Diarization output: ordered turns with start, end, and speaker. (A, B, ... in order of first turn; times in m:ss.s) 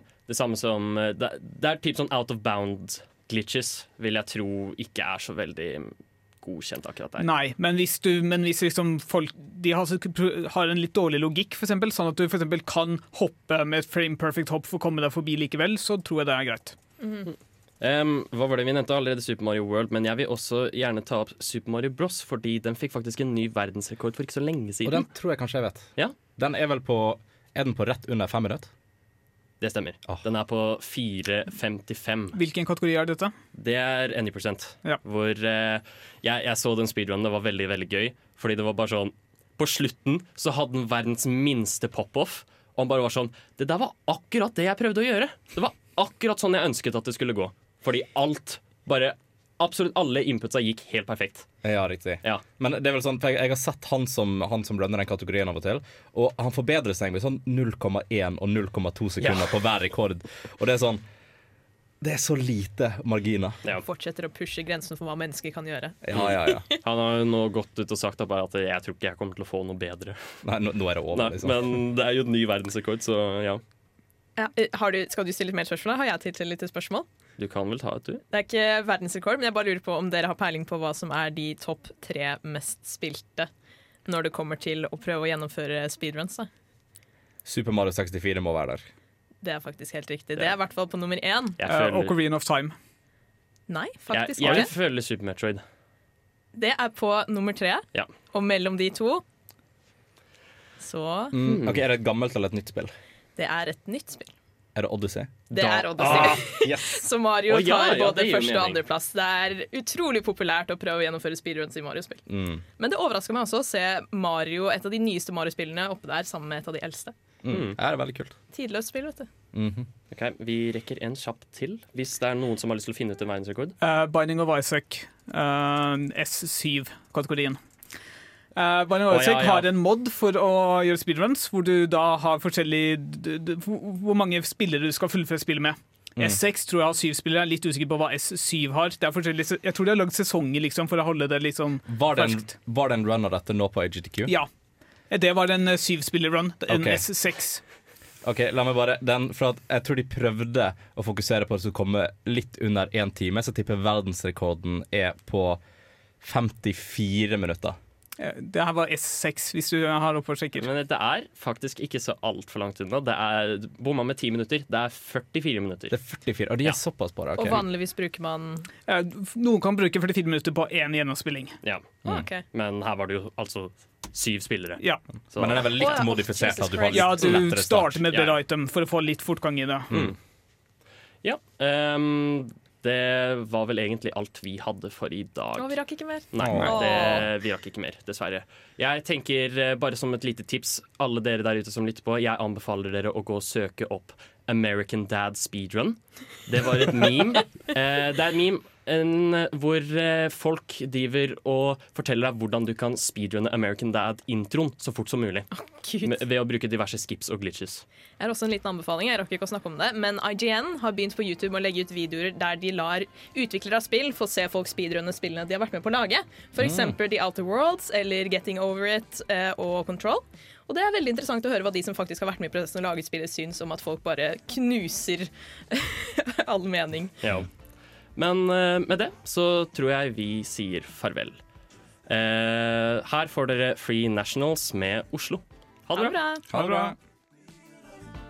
0:00.3-0:07.3 A
0:07.2-0:16.8 B
0:17.0-0:17.3 C
0:17.3-0:25.1 A
0:24.8-0:28.7 D
0:29.6-0:32.4 A
0:32.3-0:33.3 B
0:33.5-0:51.5 A
0:51.6-1:01.0 D
0:59.2-0:59.6 A
1:02.0-1:03.6 D
1:03.8-1:06.8 C
1:06.0-1:06.6 D
1:06.1-1:10.4 A
1:10.4-1:11.7 D
1:11.1-1:13.6 A
1:14.4-1:17.0 C
1:17.4-1:18.2 A
1:18.3-1:23.5 C
1:24.0-1:26.5 C
1:27.4-1:28.9 D
1:29.4-1:31.6 C
1:31.6-1:32.2 A
1:31.7-1:32.7 B
1:33.7-1:34.7 C
1:34.1-1:35.6 A
1:36.5-1:39.2 C
1:40.8-1:41.3 C
1:41.3-1:42.9 D
1:41.4-1:41.8 A
1:43.4-1:44.3 C
1:44.7-1:45.4 D
1:45.5-1:46.7 A
1:45.5-1:52.3 C
1:46.0-1:47.0 D
1:47.5-1:48.8 A
1:52.3-1:52.6 D
1:52.8-1:57.1 C
1:57.4-1:58.4 D
1:57.5-1:57.8 A
1:58.5-1:59.3 C
1:59.5-1:59.9 D
2:00.1-2:03.8 A
2:03.8-2:07.6 B
2:08.5-2:22.5 B
2:09.0-2:09.7 A
2:21.9-2:24.3 D
2:25.1-2:27.6 B
2:26.7-2:27.0 D
2:28.2-2:35.6 D
2:36.2-2:37.8 D
2:38.2-2:40.7 B
2:40.5-2:46.0 A
2:45.9-2:47.6 D
2:47.4-2:48.7 C
2:48.9-2:51.6 B
2:51.6-2:51.9 A
2:52.0-2:52.4 C
2:52.5-2:56.0 A
2:54.8-2:55.0 B
2:55.4-2:58.1 D
2:55.8-2:57.3 C
2:56.9-2:59.9 B
2:58.1-2:58.4 A
3:01.2-3:05.8 A
3:05.6-3:07.3 C
3:06.3-3:25.5 A
3:06.4-3:06.7 D
3:25.5-3:26.2 C
3:26.0-3:27.8 A
3:28.2-3:47.2 C
3:36.6-3:36.9 D
3:47.2-3:47.5 A
3:48.2-3:51.4 A
3:52.1-3:56.2 A
3:55.9-3:56.9 C
3:56.5-3:56.9 D